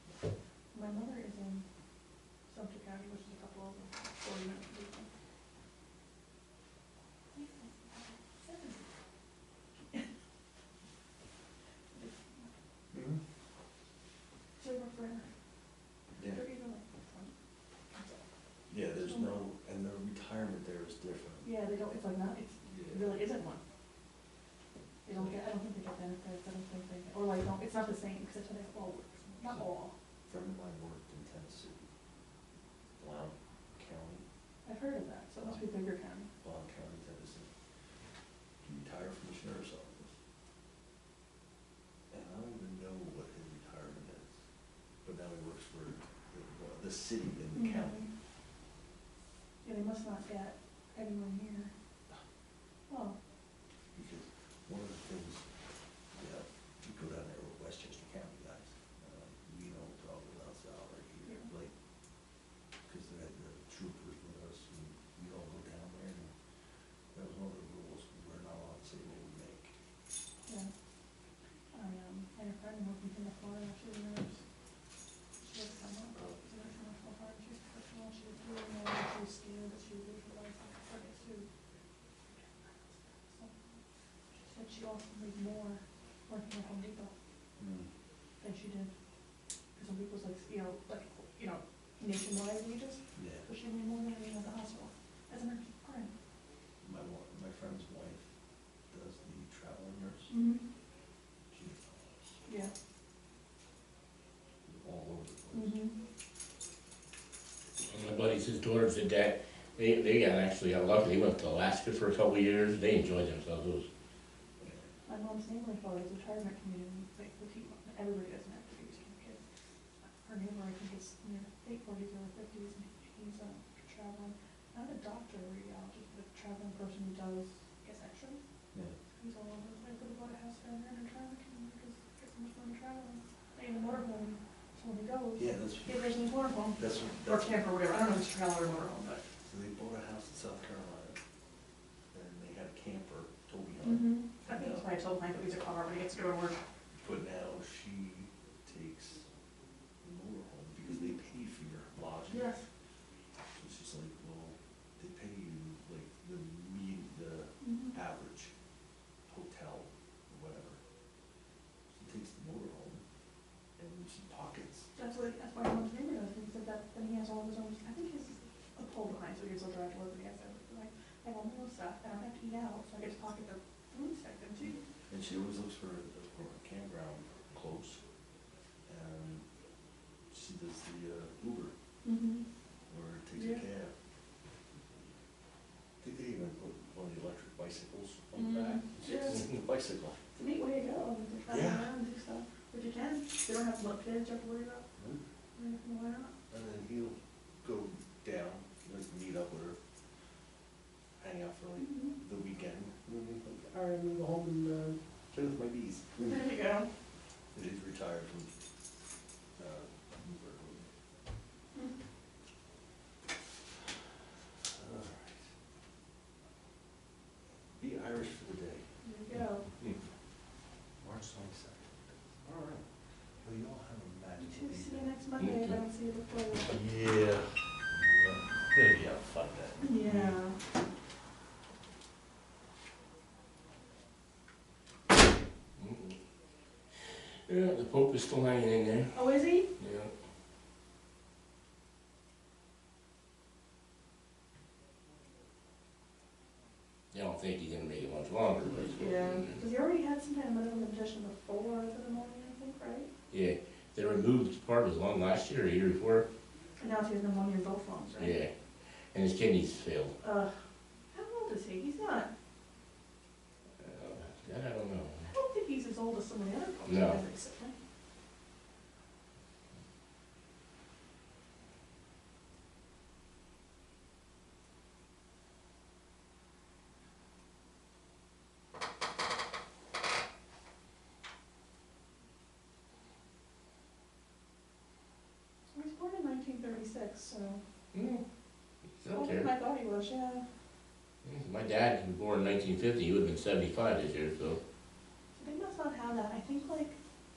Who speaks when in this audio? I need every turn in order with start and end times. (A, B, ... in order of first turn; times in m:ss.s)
0:00.7-0:01.6 A
0:02.5-0:05.1 A
0:07.3-0:08.9 A
0:11.9-0:12.5 A
0:12.9-0:13.2 B
0:14.6-0:15.3 A
0:16.2-0:16.4 B
0:16.2-0:17.3 A
0:17.9-0:18.2 A
0:18.7-0:21.5 B
0:19.0-0:19.4 A
0:21.4-0:23.6 A
0:22.6-0:23.1 B
0:25.0-0:29.9 A
0:25.2-0:25.4 B
0:30.3-0:31.9 B
0:33.0-0:34.2 B
0:34.6-0:36.3 A
0:36.4-0:37.5 B
0:38.6-0:40.1 B
0:42.1-0:44.3 B
0:45.0-0:48.0 B
0:47.5-0:48.1 A
0:49.6-0:51.7 A
0:52.9-0:53.2 A
0:54.0-0:55.4 B
0:56.2-1:01.7 B
1:02.9-1:06.3 B
1:07.1-1:09.7 B
1:10.5-1:10.7 A
1:11.7-1:14.4 A
1:15.4-1:21.5 A
1:22.3-1:23.5 A
1:24.3-1:27.1 A
1:27.6-1:27.9 B
1:28.4-1:28.9 A
1:29.8-1:36.1 A
1:33.2-1:33.4 B
1:36.8-1:38.2 B
1:38.9-1:40.3 B
1:40.3-1:40.6 A
1:41.5-1:42.0 B
1:42.5-1:42.7 A
1:44.7-1:45.8 B
1:45.5-1:45.9 A
1:47.8-1:53.9 C
1:55.1-1:59.4 A
2:00.2-2:08.4 A
2:09.2-2:19.2 A
2:15.4-2:16.1 B
2:16.8-2:17.7 B
2:19.5-2:21.2 B
2:22.1-2:24.9 B
2:23.8-2:26.6 A
2:27.0-2:29.2 B
2:30.0-2:32.5 B
2:32.3-2:32.6 A
2:33.6-2:38.5 B
2:37.6-2:38.0 A
2:39.3-2:40.8 B
2:42.0-2:43.0 B
2:43.8-2:44.9 B
2:45.0-2:54.8 A
2:55.1-2:58.0 B
2:58.9-2:59.4 B
3:00.3-3:01.7 B
3:02.0-3:02.4 A
3:02.9-3:03.9 B
3:03.4-3:03.6 A
3:06.0-3:10.2 B
3:08.4-3:09.4 A
3:10.4-3:14.9 A
3:11.5-3:11.9 B
3:15.6-3:16.3 A
3:16.5-3:19.8 B
3:21.2-3:26.4 B
3:21.8-3:22.1 A
3:26.2-3:26.9 A
3:27.5-3:28.5 B
3:29.6-3:30.9 B
3:34.7-3:35.4 B
3:37.7-3:38.8 B
3:39.0-3:39.6 A
3:41.0-3:42.9 B
3:43.4-3:45.1 B
3:44.4-3:46.8 A
3:45.4-3:45.7 C
3:46.7-3:50.3 B
3:49.8-3:50.6 A
3:55.8-3:56.2 C
3:57.0-4:00.1 C
3:59.1-3:59.7 A
4:07.1-4:09.6 C
4:09.0-4:13.1 A
4:13.3-4:16.3 C
4:16.8-4:18.4 A
4:18.2-4:18.5 C
4:19.1-4:20.1 C
4:20.2-4:20.5 A
4:21.1-4:22.3 A
4:23.8-4:25.3 C
4:25.3-4:27.8 A
4:26.9-4:27.2 C
4:45.7-4:47.6 A
4:47.9-4:48.2 C
4:49.0-4:49.5 C
4:49.1-4:50.4 A
4:51.2-4:54.6 C
4:55.4-4:57.0 A